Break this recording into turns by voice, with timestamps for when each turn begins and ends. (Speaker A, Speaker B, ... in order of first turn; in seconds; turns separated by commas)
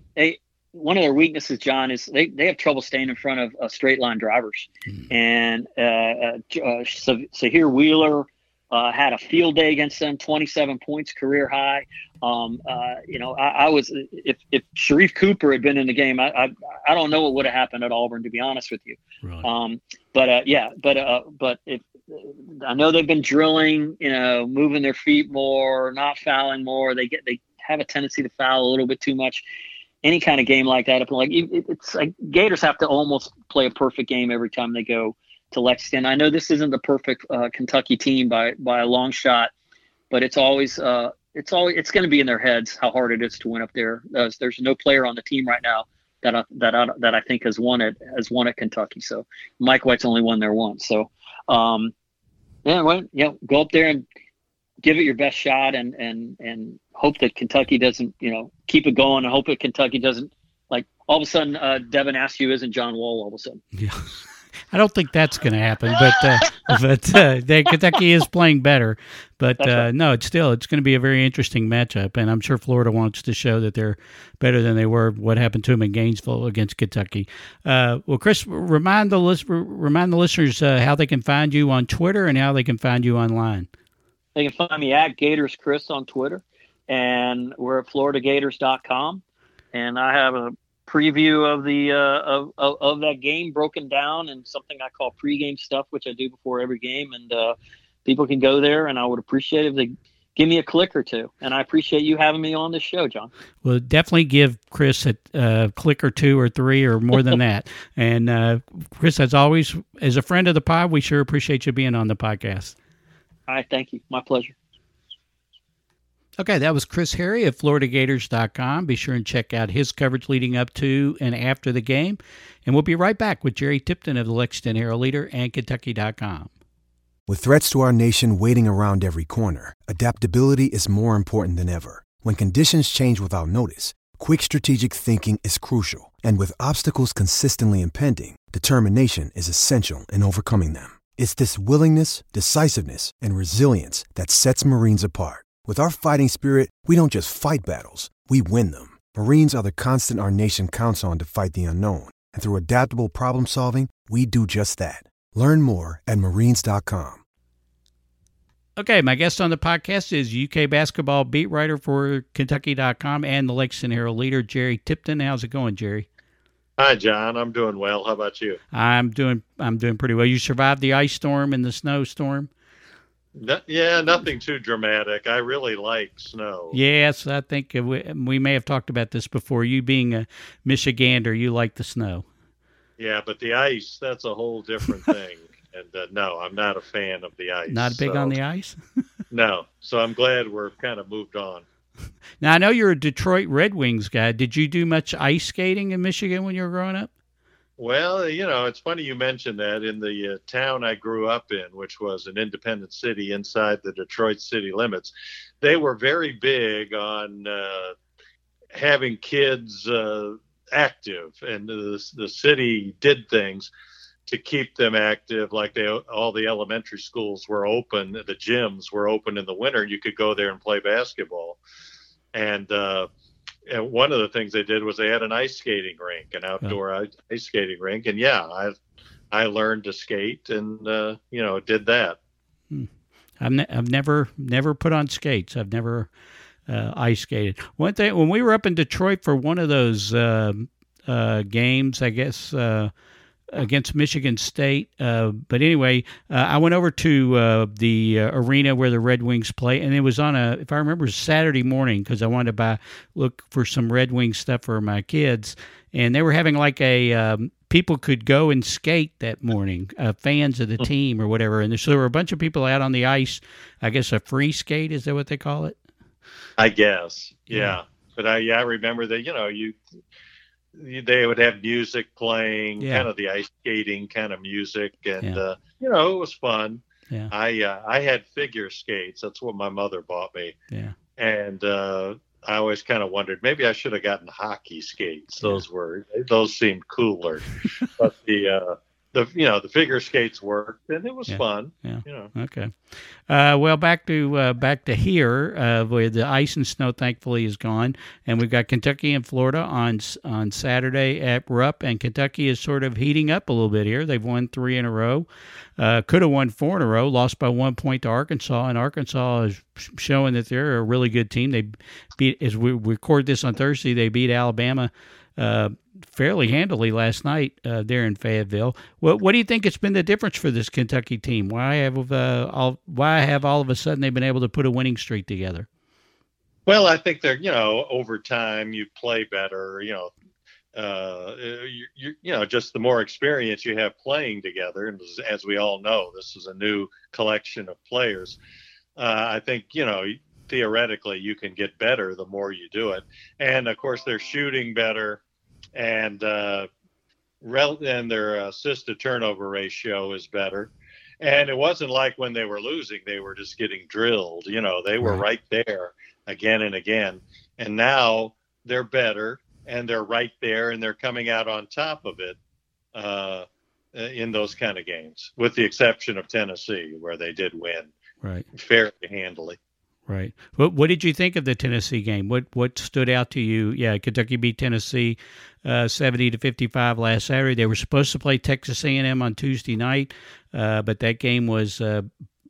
Speaker A: 0.1-29.4, Speaker A: 30.0-39.5, Speaker A: 40.1-51.9, Speaker A: 52.6-54.0, Speaker A: 54.8-63.6, Speaker B: 63.8-64.1, Speaker B: 64.7-83.7, Speaker A: 69.6-69.9, Speaker A: 84.3-89.2, Speaker A: 89.7-103.3, Speaker B: 103.6-112.7, Speaker A: 113.5-114.5, Speaker B: 116.4-126.5, Speaker C: 127.3-157.2, Speaker B: 158.8-166.1, Speaker D: 166.8-168.6, Speaker B: 168.7-172.5, Speaker D: 173.3-176.8, Speaker B: 176.7-182.2, Speaker D: 183.0-188.3, Speaker B: 187.7-188.8, Speaker D: 189.3-191.6, Speaker B: 192.4-197.1, Speaker D: 197.8-207.9, Speaker D: 208.7-213.7, Speaker D: 214.3-221.6, Speaker D: 222.3-223.1, Speaker D: 223.7-228.8, Speaker D: 229.3-232.2, Speaker B: 233.4-236.1, Speaker B: 236.7-242.9, Speaker B: 243.5-265.8, Speaker D: 266.6-269.8, Speaker B: 267.5-267.8, Speaker D: 270.7-280.5, Speaker B: 272.8-273.1, Speaker D: 281.2-292.3, Speaker B: 291.3-305.2, Speaker B: 305.8-325.7, Speaker D: 326.7-330.1, Speaker D: 330.7-338.4, Speaker D: 339.0-345.2, Speaker D: 345.7-346.7, Speaker D: 347.4-362.4, Speaker D: 362.9-367.9, Speaker D: 368.5-369.6, Speaker B: 370.1-382.1